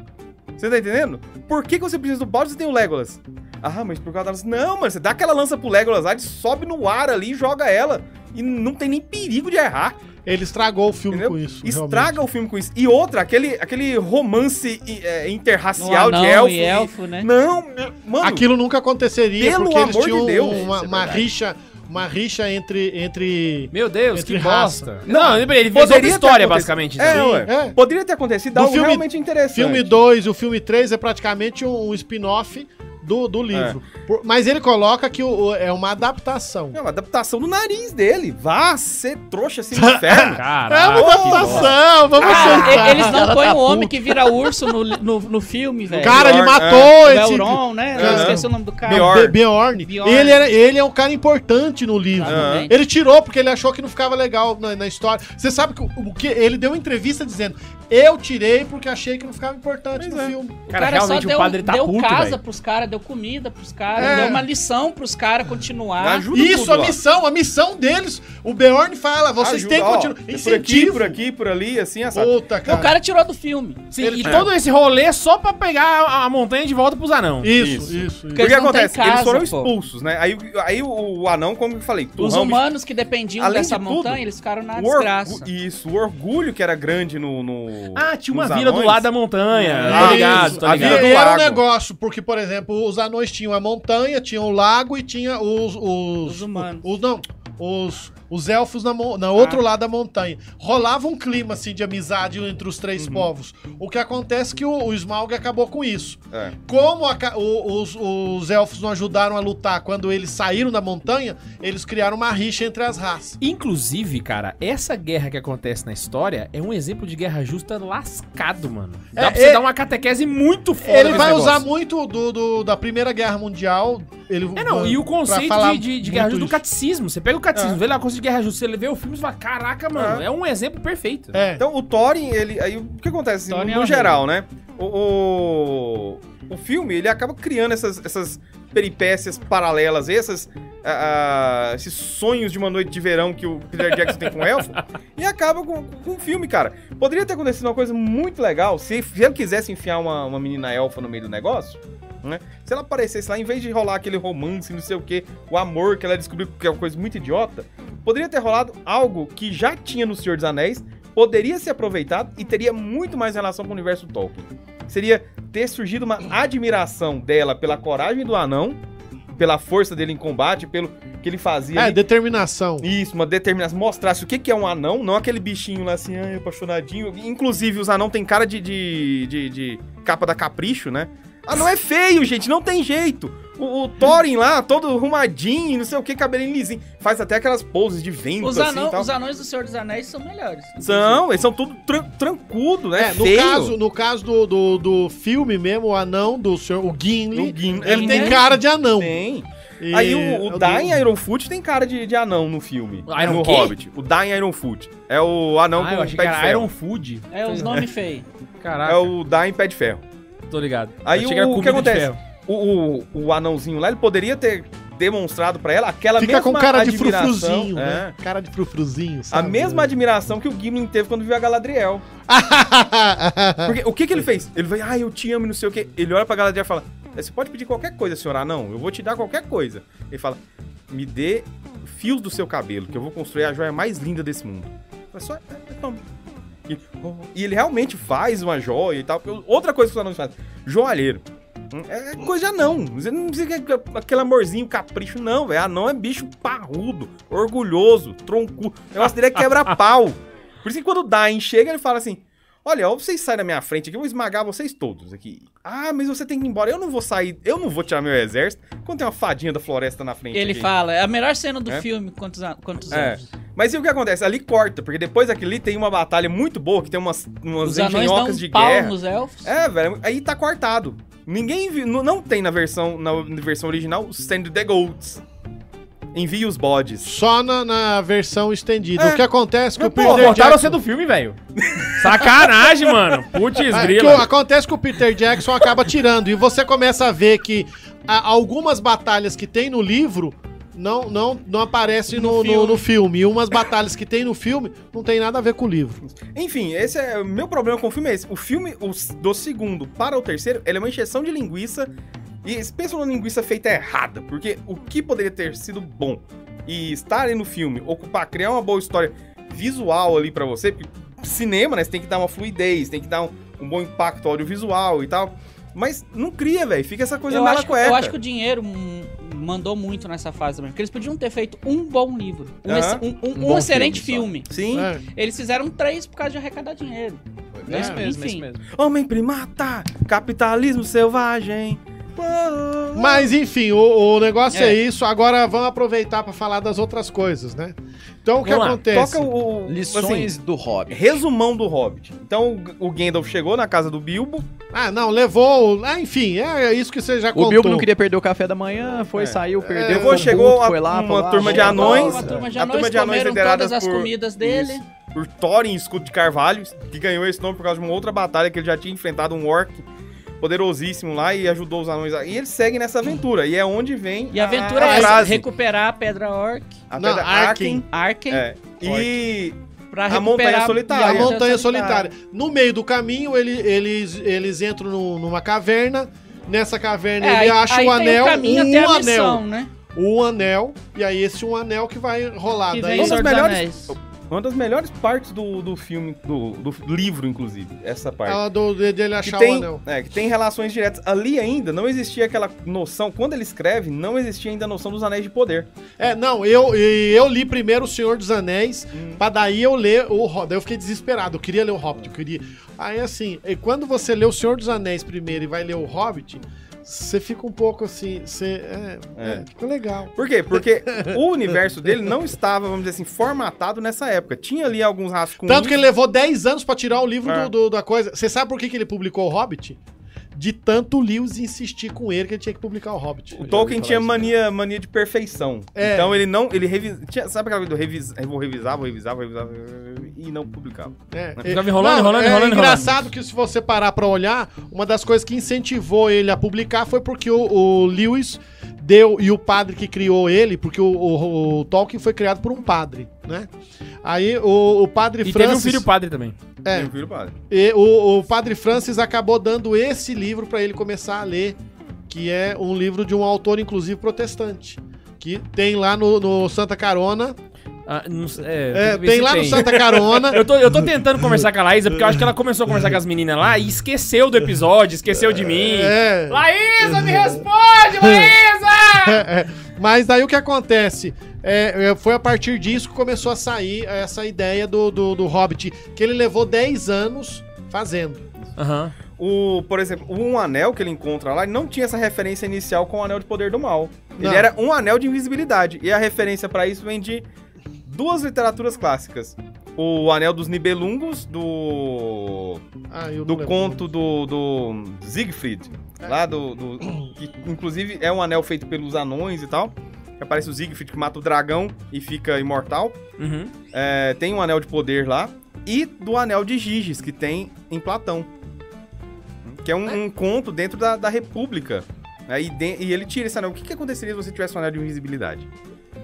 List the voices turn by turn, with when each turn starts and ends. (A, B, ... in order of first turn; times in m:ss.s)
0:00.6-0:10.0 A
0:10.2-0:12.2 B
0:11.1-0:18.5 A
0:15.8-0:17.3 C
0:18.2-0:25.2 B
0:19.4-0:20.8 A
0:20.5-0:21.3 D
0:23.7-0:27.4 E
0:25.1-0:29.9 A
0:27.1-0:27.8 B
0:28.5-0:36.8 B
0:33.5-0:33.8 A
0:36.7-0:40.4 A
0:39.8-0:44.3 B
0:40.4-0:41.6 E
0:41.0-0:43.1 A
0:41.2-0:41.7 D
0:42.2-0:49.1 C
0:46.0-0:47.0 A
0:46.0-1:00.6 B
0:48.0-0:49.4 A
0:49.8-0:50.4 C
0:52.2-0:52.7 C
0:52.2-0:52.7 A
1:00.0-1:00.4 A
1:00.7-1:06.3 C
1:00.7-1:02.4 E
1:04.0-1:04.5 B
1:04.0-1:04.3 A
1:06.0-1:07.0 A
1:06.3-1:11.2 B
1:09.4-1:12.3 A
1:12.1-1:13.0 B
1:12.6-1:13.8 C
1:13.9-1:17.5 E
1:14.0-1:14.5 B
1:17.4-1:18.4 B
1:17.6-1:22.7 A
1:18.3-1:19.7 C
1:22.2-1:25.5 C
1:23.4-1:29.1 A
1:28.0-1:31.2 E
1:29.8-1:31.6 A
1:29.8-1:53.4 B
1:36.2-1:36.9 C
1:39.4-1:39.6 C
1:43.0-1:43.3 A
1:46.3-1:46.6 A
1:53.4-2:01.6 E
1:59.2-1:59.6 B
2:00.8-2:06.6 B
2:01.0-2:01.5 A
2:04.6-2:11.4 E
2:07.5-2:07.8 A
2:10.0-2:10.3 A
2:11.3-2:11.6 B
2:11.6-2:48.8 A
2:13.5-2:14.2 C
2:49.3-2:52.0 A
2:51.8-2:52.9 B
2:52.8-3:09.1 A
3:08.4-3:11.2 C
3:10.8-3:13.8 A
3:13.0-3:19.2 B
3:17.3-3:26.7 A
3:17.8-3:18.4 C
3:19.8-3:21.0 B
3:23.1-3:23.8 E
3:25.8-3:27.7 E
3:27.3-3:28.3 C
3:28.6-3:29.1 E
3:28.8-3:30.0 A
3:30.5-3:32.2 E
3:31.0-3:38.2 A
3:36.2-3:40.0 B
3:39.3-3:42.0 A
3:42.3-3:43.8 B
3:43.6-3:56.0 A
3:56.7-4:20.7 A
4:20.3-4:23.2 C
4:22.9-4:35.2 A
4:27.6-4:29.5 C
4:36.1-4:37.1 A
4:37.0-4:40.8 B
4:39.0-4:39.2 A
4:39.8-4:40.5 A
4:40.0-4:41.4 E
4:41.6-4:42.9 A
4:41.9-4:44.3 E
4:43.7-4:56.0 B
4:52.2-4:52.7 C
4:56.1-5:01.9 A
5:02.4-5:18.2 A
5:17.3-5:28.4 C
5:22.6-5:23.0 A
5:23.3-5:24.3 D
5:24.5-5:24.9 A
5:24.7-5:25.0 B
5:27.5-5:28.6 D
5:27.7-5:28.0 B
5:28.7-5:33.3 A
5:33.0-5:39.3 B
5:34.5-5:34.8 C
5:38.4-5:38.8 E
5:38.9-5:40.3 A
5:39.7-5:41.2 D
5:40.9-5:44.5 A
5:44.7-5:47.9 B
5:47.3-5:52.4 D
5:49.2-5:59.8 A
5:49.6-5:50.4 B
5:51.4-5:54.8 C
6:00.4-6:05.4 A
6:04.3-6:06.8 C
6:04.8-6:05.2 B
6:06.9-6:09.6 A
6:07.0-6:07.8 B
6:07.9-6:09.1 C
6:09.9-6:12.1 C
6:10.1-6:11.3 A
6:11.0-6:19.4 B
6:17.2-6:19.7 C
6:19.9-6:23.3 B
6:22.7-6:24.0 C
6:23.0-6:28.4 A
6:28.3-6:29.8 B
6:29.2-6:35.7 A
6:36.0-6:50.2 B
6:38.9-6:39.2 A
6:49.2-6:49.4 A
6:50.2-6:55.8 A
6:50.9-6:51.2 B
6:55.4-6:59.8 B
6:57.2-6:57.5 A
7:00.4-7:03.4 B
7:03.4-7:11.5 A
7:03.4-7:04.4 D
7:05.8-7:06.2 B
7:11.1-7:23.5 B
7:11.4-7:13.0 E
7:24.0-7:25.9 B
7:25.2-7:26.4 E
7:26.6-7:26.9 B
7:26.7-7:27.4 A
7:27.5-7:31.6 B
7:32.1-7:37.4 B
7:37.9-7:49.3 E
7:38.7-7:40.5 B
7:45.3-7:47.4 B
7:48.0-7:48.3 B
7:49.0-7:58.3 B
7:58.6-7:59.0 E
7:59.2-8:07.3 A
8:04.2-8:04.5 B
8:07.9-8:12.6 A
8:12.9-8:13.9 B
8:13.3-8:23.0 A
8:23.2-8:23.5 E
8:23.7-8:28.3 A
8:29.4-8:35.5 A